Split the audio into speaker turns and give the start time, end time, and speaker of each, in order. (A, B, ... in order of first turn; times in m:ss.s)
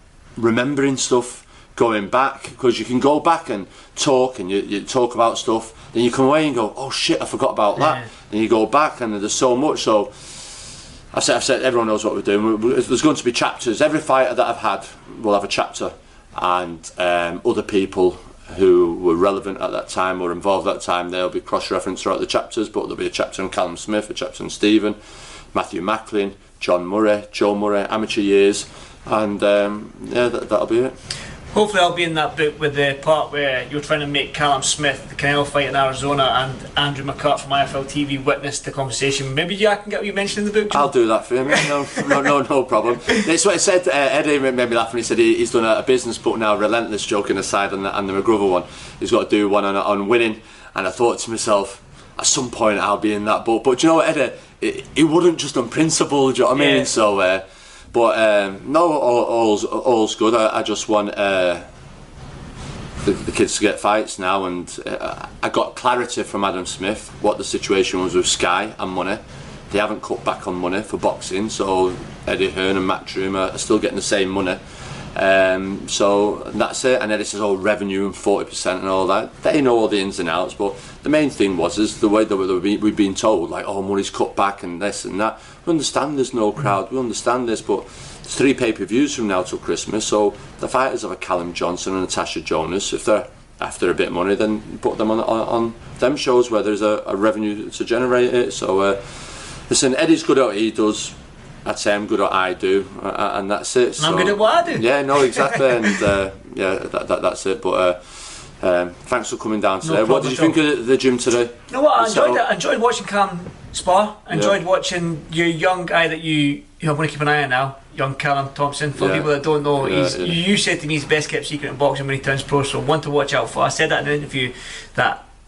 0:00.4-0:10.1 A
0:11.1-0:25.0 A
0:25.5-0:30.9 A
0:31.5-0:40.9 B
0:40.7-1:01.6 A
0:56.6-0:56.9 B
1:03.0-1:14.6 A
1:15.1-1:48.0 A
1:44.0-1:45.9 B
1:48.6-1:52.4 A
1:49.8-1:50.6 B
1:51.7-2:05.2 B
1:54.3-1:54.6 A
1:59.0-2:00.4 A